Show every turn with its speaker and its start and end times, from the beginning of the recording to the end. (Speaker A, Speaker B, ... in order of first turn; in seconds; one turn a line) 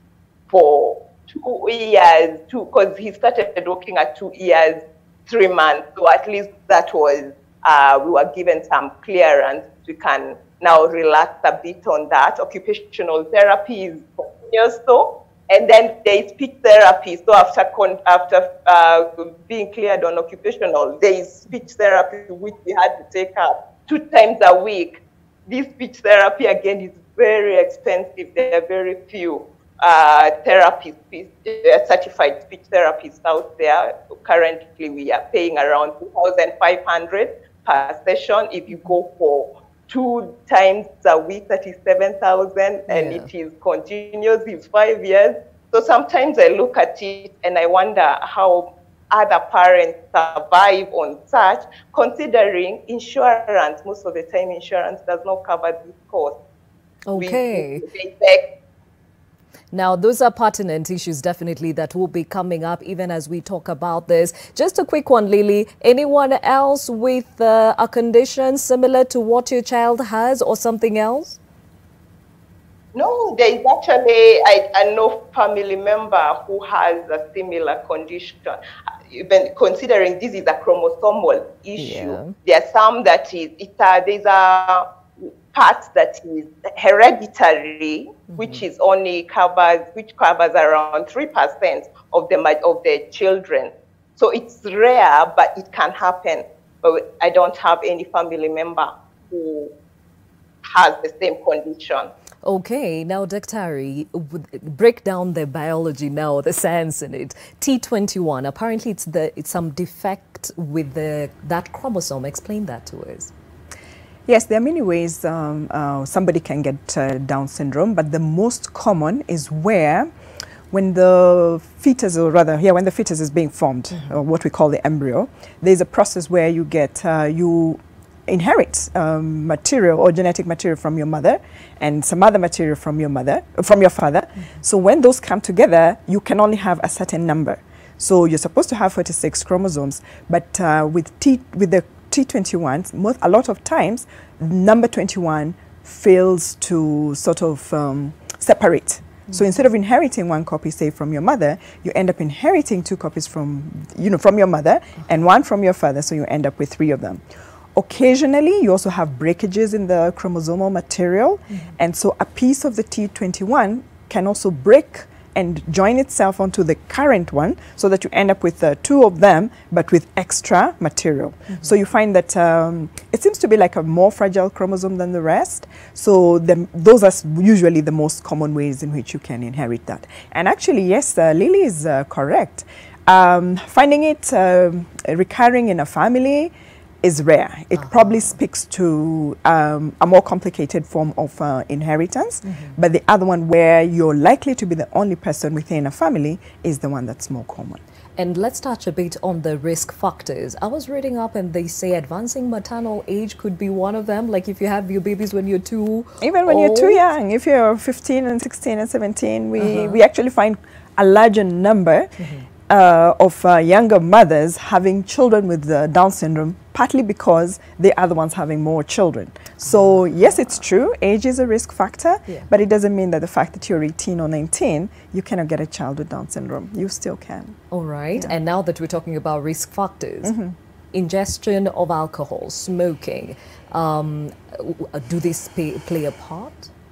Speaker A: 0.5-56.4
Speaker B: 42.9-43.3
Speaker B: 57.1-57.8
Speaker A: 57.1-58.4
Speaker B: 59.7-71.4
Speaker A: 73.0-78.5
Speaker A: 79.1-84.8
Speaker B: 81.8-82.3
Speaker A: 85.5-99.7
Speaker B: 88.3-88.6
Speaker A: 100.7-102.1
Speaker B: 102.4-113.3
Speaker C: 114.3-120.1
Speaker C: 120.7-197.8
Speaker B: 187.8-188.3
Speaker B: 192.4-192.8
Speaker B: 198.2-207.0
Speaker C: 206.2-212.1
Speaker B: 209.6-210.0
Speaker B: 212.2-212.5
Speaker C: 212.7-227.6
Speaker B: 219.6-220.6
Speaker B: 227.7-230.3
Speaker C: 230.2-230.6
Speaker B: 230.9-236.7